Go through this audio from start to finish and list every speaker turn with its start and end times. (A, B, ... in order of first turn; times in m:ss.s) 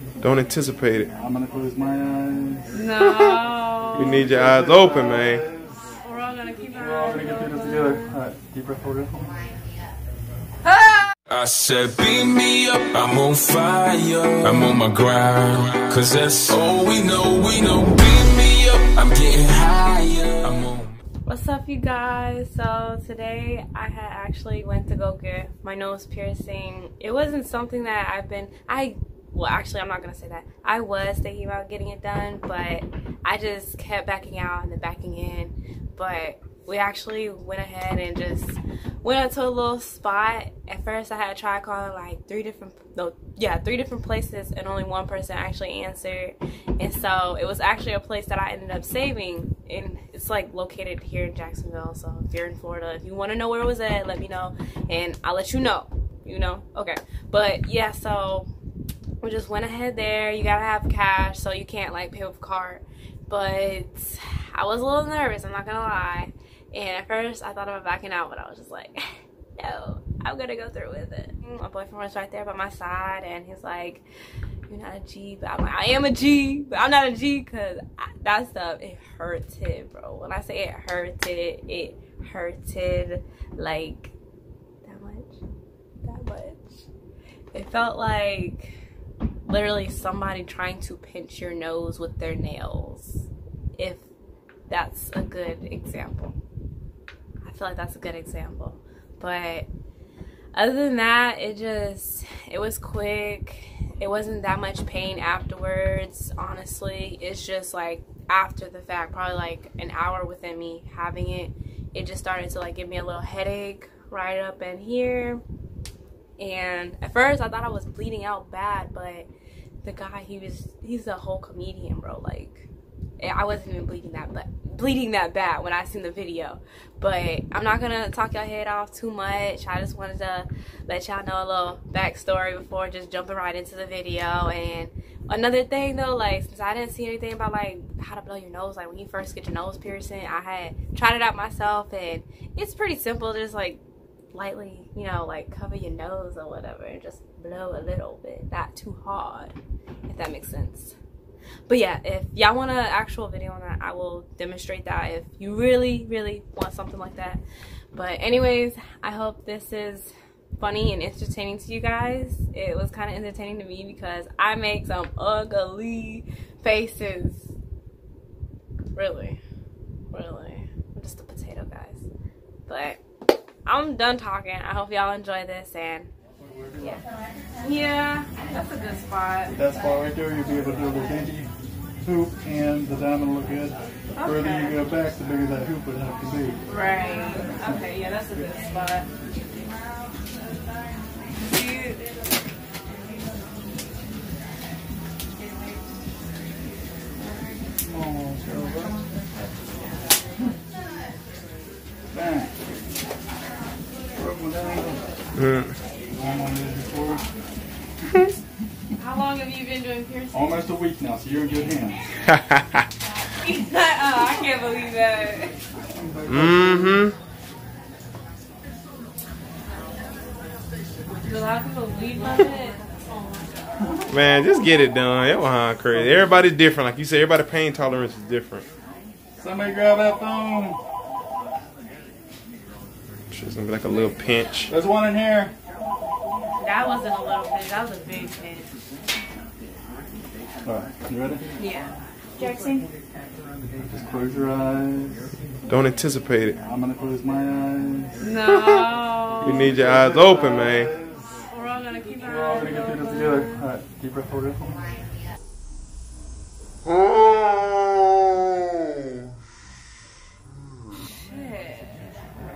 0:00.2-0:01.1 A
0:01.2-0:02.8 B
0:02.7-0:04.1 C
0:03.1-0:03.3 A
0:03.9-0:05.4 A
0:03.9-0:06.0 B
0:06.0-0:08.0 C
0:06.8-0:09.4 B
0:10.7-0:11.0 C
0:11.3-0:21.0 D
0:21.3-0:58.5 C
0:59.2-1:09.0 C
1:09.6-1:14.0 C
1:14.7-1:24.1 C
1:24.8-1:25.4 C
1:26.0-1:26.9 C
1:27.5-1:28.8 C
1:29.5-1:34.1 C
1:34.7-1:36.4 C
1:37.4-1:39.7 C
1:40.5-1:55.4 C
1:56.4-1:59.3 C
1:59.8-2:23.8 C
2:24.3-2:29.6 C
2:30.1-2:31.0 C
2:31.7-2:37.4 C
2:37.9-2:47.6 C
2:49.0-2:49.4 C
2:50.1-2:52.1 C
2:52.7-2:53.0 C
2:53.7-2:56.1 C
2:56.4-2:57.0 B
2:57.6-2:59.5 C
2:59.5-3:06.6 B
3:04.2-3:04.8 C
3:06.7-3:09.1 C
3:07.4-3:07.8 B
3:11.4-3:12.1 C
3:17.8-3:19.0 B
3:22.1-3:22.5 B
3:24.2-3:25.0 B
3:25.4-3:25.8 A
3:26.1-3:27.3 B
3:29.0-3:30.7 C
3:30.3-3:32.0 B
3:32.3-3:32.8 A
3:33.3-3:35.6 C
3:35.9-3:37.1 B
3:36.3-3:37.2 A
3:41.2-3:43.6 C
3:44.1-3:48.7 A
3:45.9-3:46.4 B
3:49.4-3:50.8 B
3:53.3-3:54.7 A
3:54.7-3:55.5 B
3:56.6-3:58.7 C
4:00.6-4:01.6 B
4:01.6-4:02.9 C
4:03.8-4:05.2 B
4:05.7-4:06.6 A
4:06.6-4:08.3 B
4:08.2-4:09.6 C
4:08.5-4:08.9 A
4:09.4-4:11.5 B
4:09.4-4:10.9 A
4:11.5-4:13.6 C
4:12.2-4:14.8 B
4:16.8-4:18.9 A
4:21.0-4:22.0 C